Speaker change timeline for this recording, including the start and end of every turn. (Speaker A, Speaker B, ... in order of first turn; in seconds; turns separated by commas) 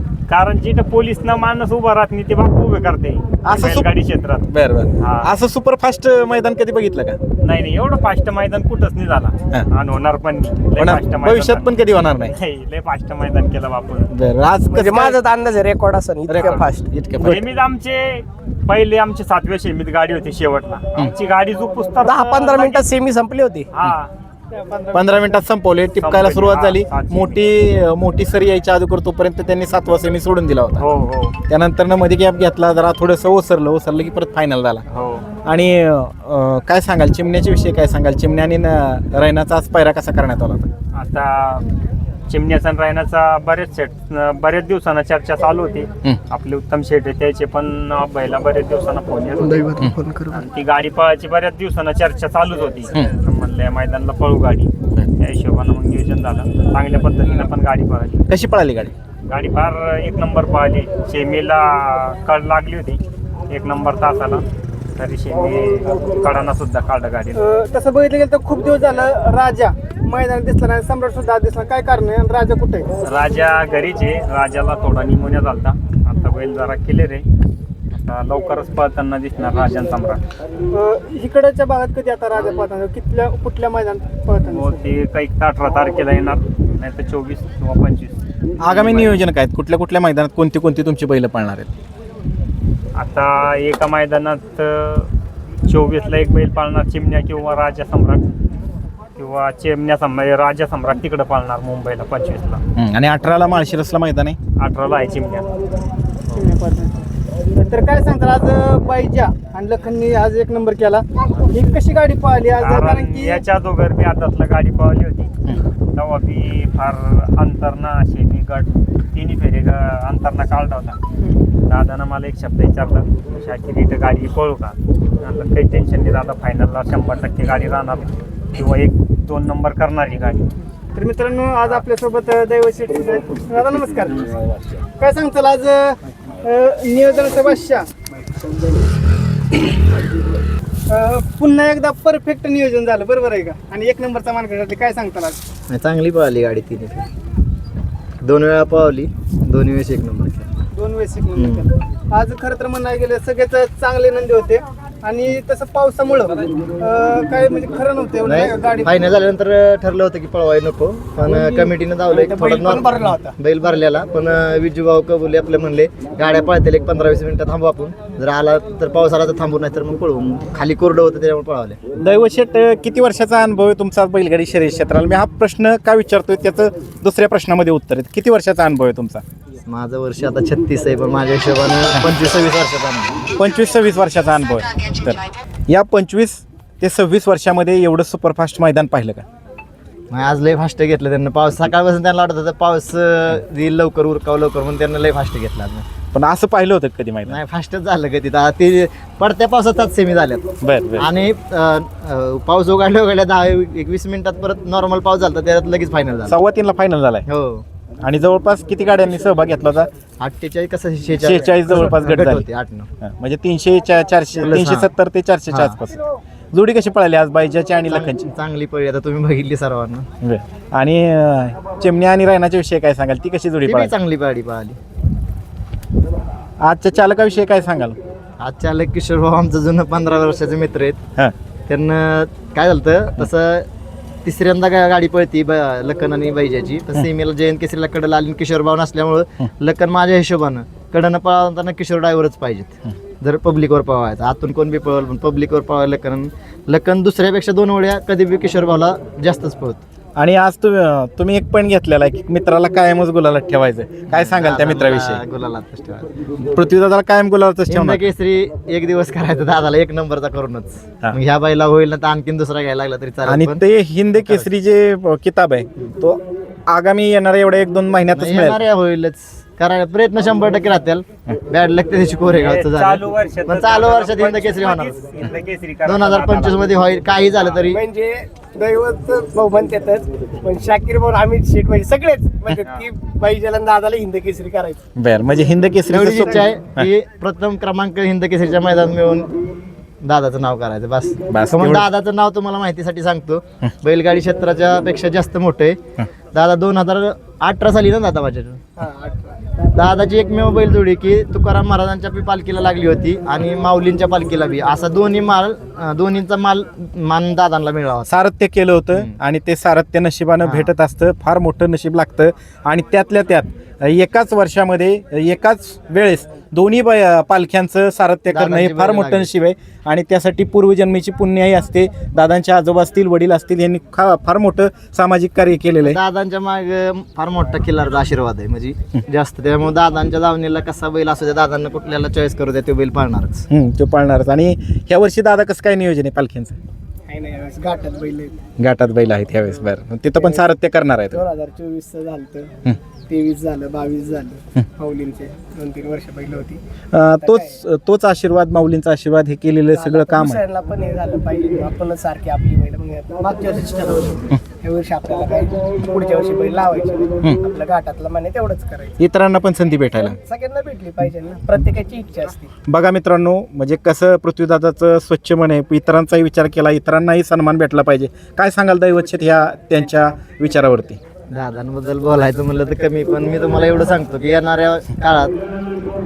Speaker A: 0.3-4.4, Speaker B: 3.4-3.9, Speaker B: 4.5-7.2, Speaker A: 5.0-5.3, Speaker A: 7.4-11.7, Speaker B: 10.8-12.3, Speaker A: 12.3-14.1, Speaker B: 14.1-15.2, Speaker C: 14.7-17.3, Speaker B: 16.3-17.4, Speaker A: 16.4-16.6, Speaker A: 17.2-22.8, Speaker C: 22.0-23.7, Speaker A: 23.7-24.1, Speaker D: 24.5-25.2, Speaker B: 24.9-30.8, Speaker A: 26.0-27.4, Speaker A: 30.8-31.4, Speaker B: 31.5-34.8, Speaker A: 34.9-35.3, Speaker B: 35.4-40.7, Speaker A: 40.9-41.6, Speaker A: 42.3-49.7, Speaker C: 49.4-50.4, Speaker A: 50.3-58.3, Speaker B: 58.3-58.9, Speaker A: 59.3-64.4, Speaker A: 64.9-67.4, Speaker D: 67.3-72.9, Speaker A: 73.0-77.2, Speaker A: 77.9-80.2, Speaker D: 80.7-84.8, Speaker A: 84.4-89.2, Speaker B: 88.6-91.7, Speaker A: 93.0-95.1, Speaker A: 95.7-98.2, Speaker A: 99.2-102.6, Speaker B: 102.8-104.4, Speaker A: 104.6-105.5, Speaker D: 106.3-113.4, Speaker A: 112.6-115.3, Speaker A: 115.9-121.0, Speaker A: 121.7-130.5, Speaker D: 130.9-134.3, Speaker D: 135.0-137.9, Speaker D: 140.9-145.4, Speaker E: 145.7-147.1, Speaker E: 148.2-150.5, Speaker D: 150.7-158.9, Speaker E: 151.3-151.7, Speaker E: 158.2-171.8, Speaker C: 161.3-163.4, Speaker B: 172.0-179.2, Speaker E: 179.7-183.3, Speaker B: 183.3-189.2, Speaker E: 190.1-195.8, Speaker B: 196.1-197.4, Speaker E: 197.2-206.4, Speaker B: 200.6-201.1, Speaker B: 206.3-207.2, Speaker E: 207.3-207.6, Speaker B: 208.0-209.9, Speaker E: 210.2-212.9, Speaker B: 211.2-212.4, Speaker B: 213.0-218.3, Speaker E: 214.4-214.9, Speaker E: 215.5-215.8, Speaker E: 217.9-220.1, Speaker B: 220.2-223.9, Speaker E: 223.7-224.8, Speaker B: 226.6-228.0, Speaker E: 228.4-231.0, Speaker E: 231.7-233.7, Speaker E: 234.2-249.8, Speaker B: 250.2-255.2, Speaker E: 254.1-256.1, Speaker B: 256.4-258.0, Speaker E: 257.7-263.6, Speaker B: 263.3-268.6, Speaker E: 268.1-274.9, Speaker A: 272.3-276.8, Speaker E: 275.8-277.8, Speaker C: 277.7-284.8, Speaker B: 284.9-286.9, Speaker E: 285.9-289.4, Speaker E: 290.0-298.6, Speaker B: 291.3-291.9, Speaker E: 299.7-308.1, Speaker B: 308.1-326.0, Speaker E: 310.4-310.7, Speaker E: 318.3-319.3, Speaker E: 325.8-333.4, Speaker B: 333.5-336.5, Speaker C: 337.1-338.4, Speaker B: 338.6-341.2, Speaker C: 340.2-340.4, Speaker C: 341.1-342.5, Speaker C: 343.1-346.6, Speaker B: 346.9-350.4, Speaker C: 347.2-347.6, Speaker C: 349.7-358.9, Speaker B: 359.0-360.2, Speaker C: 360.1-362.5, Speaker B: 362.7-371.0, Speaker E: 371.3-375.4